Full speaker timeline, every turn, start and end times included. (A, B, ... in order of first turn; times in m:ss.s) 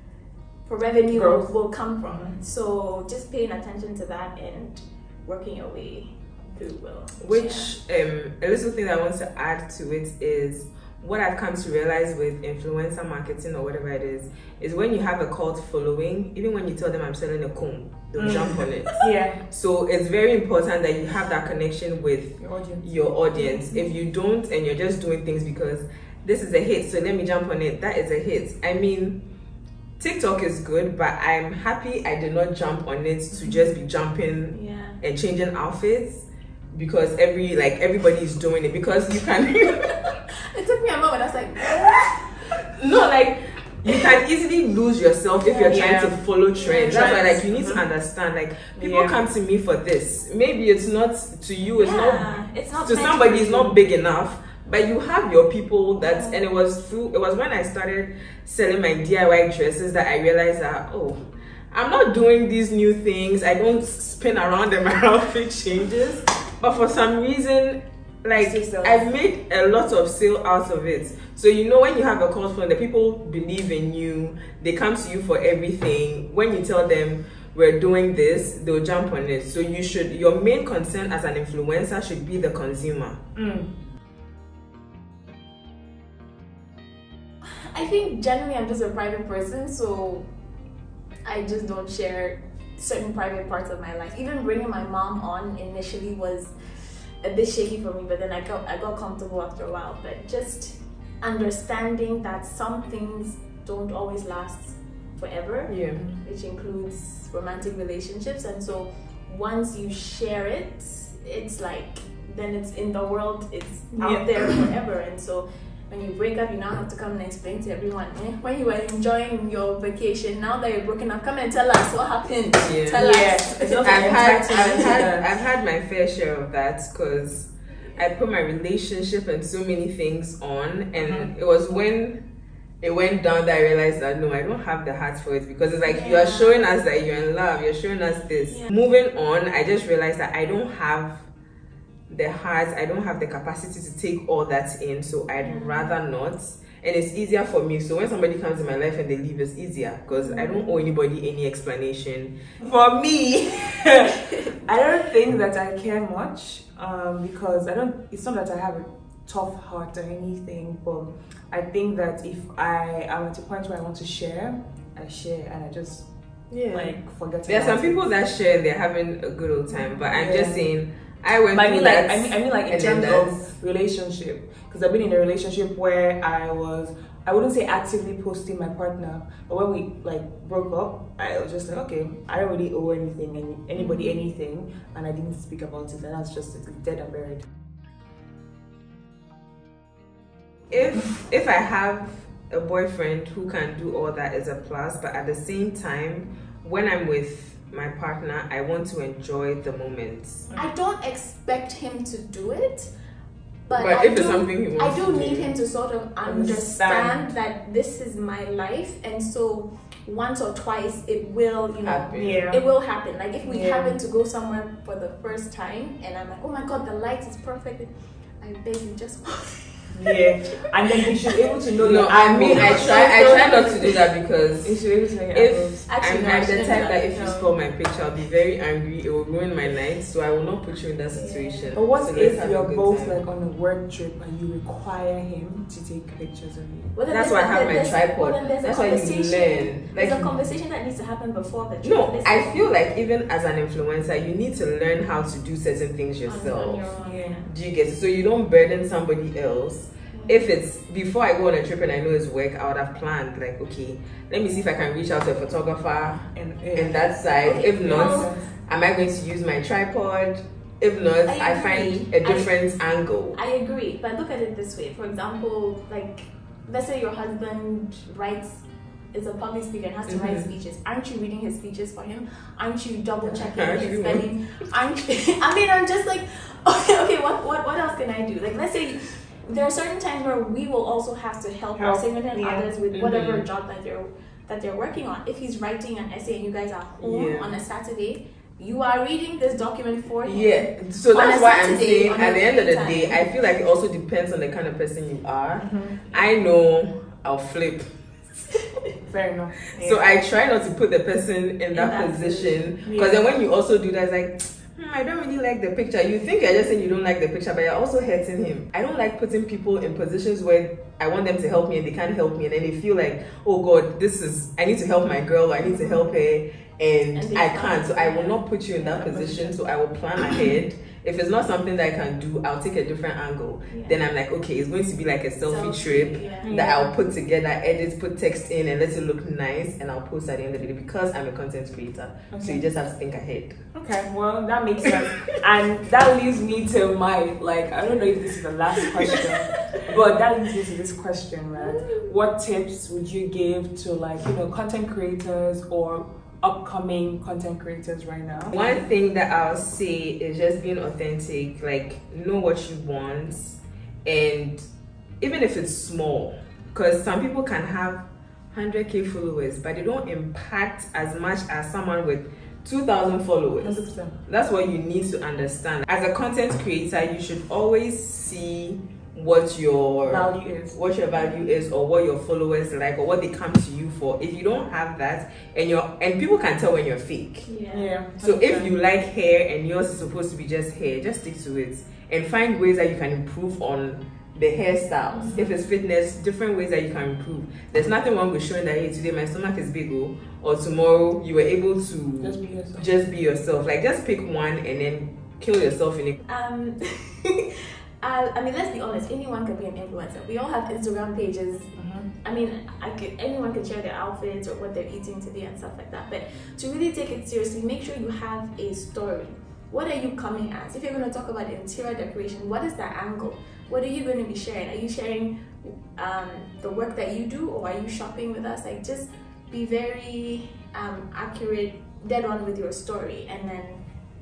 0:00.6-0:07.7 A
0:01.1-0:01.5 B
0:02.1-0:02.4 B
0:07.2-0:29.2 C
0:18.2-0:19.4 B
0:22.4-0:22.8 B
0:23.3-0:23.9 A
0:30.0-0:40.0 C
0:34.5-0:35.0 A
0:40.3-0:42.0 A
0:42.6-0:52.3 C
0:45.4-0:45.9 A
0:45.5-0:46.2 B
0:46.6-0:47.4 A
0:46.8-0:47.8 B
0:48.8-0:49.2 B
0:51.8-0:53.8 A
0:52.8-1:01.2 C
0:56.0-0:56.4 A
1:01.7-1:23.2 C
1:08.4-1:09.1 B
1:23.3-1:23.7 B
1:27.4-1:30.2 A
1:31.2-2:05.0 A
1:45.7-1:46.0 C
1:54.0-1:54.7 B
2:02.6-2:03.0 C
2:02.9-2:05.3 B
2:03.8-2:12.2 C
2:11.0-2:11.3 B
2:12.8-2:21.3 C
2:15.8-2:16.6 A
2:22.1-2:32.4 C
2:25.4-2:25.9 A
2:30.1-2:30.8 A
2:32.6-2:46.1 B
2:46.5-2:53.3 C
2:46.7-2:48.0 B
2:49.7-2:50.0 A
2:50.1-2:50.7 B
2:51.5-3:07.4 B
3:03.8-3:04.2 A
3:10.7-3:20.5 C
3:20.5-3:22.9 A
3:23.7-3:41.3 A
3:23.7-3:25.5 C
3:26.2-3:27.3 B
3:31.8-3:32.4 C
3:32.2-3:32.6 B
3:33.4-3:34.0 B
3:39.9-3:44.0 B
3:41.8-3:44.8 C
3:42.4-3:44.0 A
3:44.6-3:45.8 B
3:45.3-3:53.2 C
3:45.9-3:47.5 A
3:51.1-3:51.7 A
3:51.7-3:56.9 B
3:56.9-4:02.7 A
3:57.1-4:00.3 C
4:01.8-4:06.9 C
4:06.2-4:07.5 A
4:07.0-4:07.4 B
4:07.4-4:23.4 C
4:10.1-4:10.4 A
4:16.3-4:18.5 B
4:17.4-4:18.3 A
4:21.2-4:22.5 A
4:23.3-4:53.2 A
4:30.1-4:30.5 C
4:33.3-4:34.2 C
4:41.8-4:42.7 B
4:42.9-4:43.4 C
4:47.0-4:47.5 C
4:50.2-4:57.9 C
4:55.6-4:56.0 B
4:59.1-5:00.0 B
4:59.8-5:33.6 C
5:01.7-5:02.6 A
5:02.8-5:03.2 B
5:15.6-5:16.0 A
5:17.1-5:19.6 A
5:23.7-5:24.0 A
5:25.5-5:26.5 A
5:26.4-5:26.8 B
5:32.3-5:32.6 B
5:33.7-5:48.6 B
5:34.9-5:35.4 C
5:39.1-5:39.8 A
5:48.5-5:54.6 C
5:55.2-6:17.5 C
6:03.6-6:04.2 B
6:10.0-6:10.8 B
6:17.4-6:17.9 A
6:17.7-6:18.7 B
6:18.2-6:36.2 C
6:25.1-6:25.5 A
6:32.2-6:32.9 B
6:36.2-7:03.8 A
6:41.8-6:42.1 B